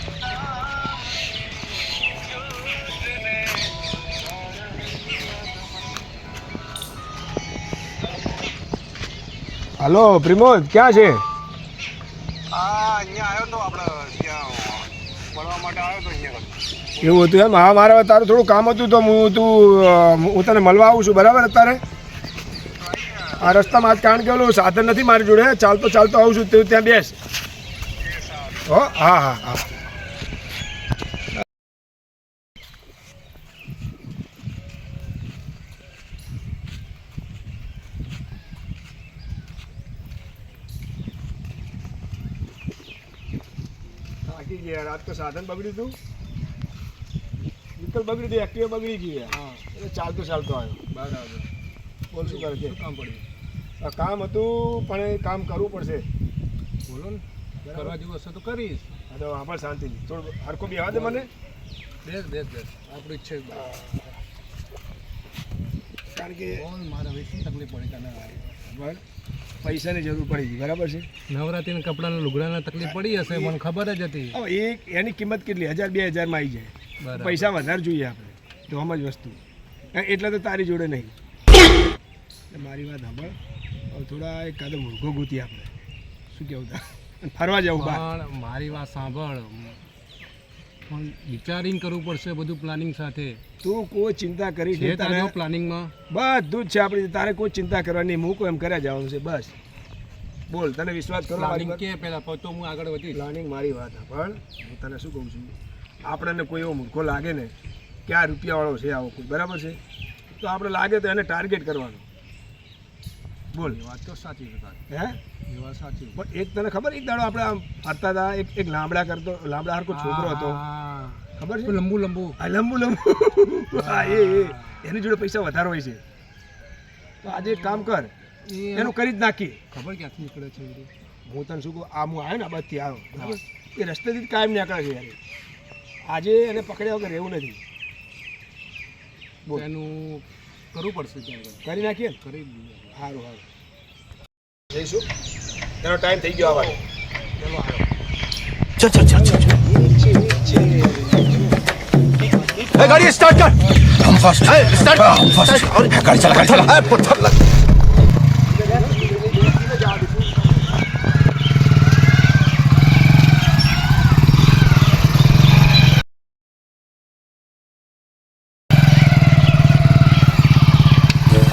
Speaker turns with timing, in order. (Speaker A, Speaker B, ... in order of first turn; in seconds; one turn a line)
Speaker A: 9.8-11.2
Speaker B: 12.5-16.5
Speaker A: 17.0-21.8
Speaker A: 23.3-27.2
Speaker A: 28.6-29.7
Speaker A: 44.2-46.0
Speaker A: 47.8-50.8
Speaker B: 49.3-49.6
Speaker B: 50.9-51.5
Speaker A: 52.1-52.8
Speaker B: 52.2-53.2
Speaker A: 53.8-56.1
Speaker B: 56.9-58.9
Speaker A: 57.6-58.0
Speaker A: 59.1-61.3
Speaker B: 60.9-61.3
Speaker B: 62.0-63.7
Speaker A: 63.5-64.1
Speaker A: 66.1-66.6
Speaker B: 66.5-68.4
Speaker A: 68.5-69.0
Speaker A: 69.6-71.1
Speaker B: 71.3-74.4
Speaker A: 72.8-73.6
Speaker A: 74.3-79.4
Speaker B: 77.0-77.5
Speaker A: 79.9-81.1
Speaker A: 82.5-83.4
Speaker A: 83.9-85.7
Speaker A: 86.3-88.0
Speaker B: 87.8-89.8
Speaker B: 90.9-93.4
Speaker A: 93.6-95.3
Speaker B: 94.7-95.9
Speaker A: 96.1-99.5
Speaker A: 100.5-101.8
Speaker B: 101.4-103.2
Speaker A: 103.1-107.5
Speaker A: 108.1-109.8
Speaker A: 110.4-112.0
Speaker B: 113.6-114.8
Speaker A: 114.9-115.2
Speaker B: 115.5-116.2
Speaker A: 116.2-120.6
Speaker B: 119.9-122.4
Speaker A: 121.4-121.8
Speaker A: 122.4-126.0
Speaker B: 123.8-125.0
Speaker A: 127.2-128.1
Speaker B: 127.3-127.9
Speaker B: 128.5-129.0
Speaker A: 128.8-129.6
Speaker B: 129.7-130.9
Speaker A: 131.3-135.2
Speaker A: 136.1-137.6
Speaker B: 139.5-143.0
Speaker A: 141.6-142.2
Speaker A: 142.9-143.4
Speaker A: 144.7-145.1
Speaker A: 145.8-146.8
Speaker A: 149.0-151.6
Speaker A: 152.6-153.1
Speaker B: 152.8-153.6
Speaker C: 154.2-157.2
Speaker B: 154.4-157.1
Speaker A: 158.5-160.1
Speaker B: 158.7-159.6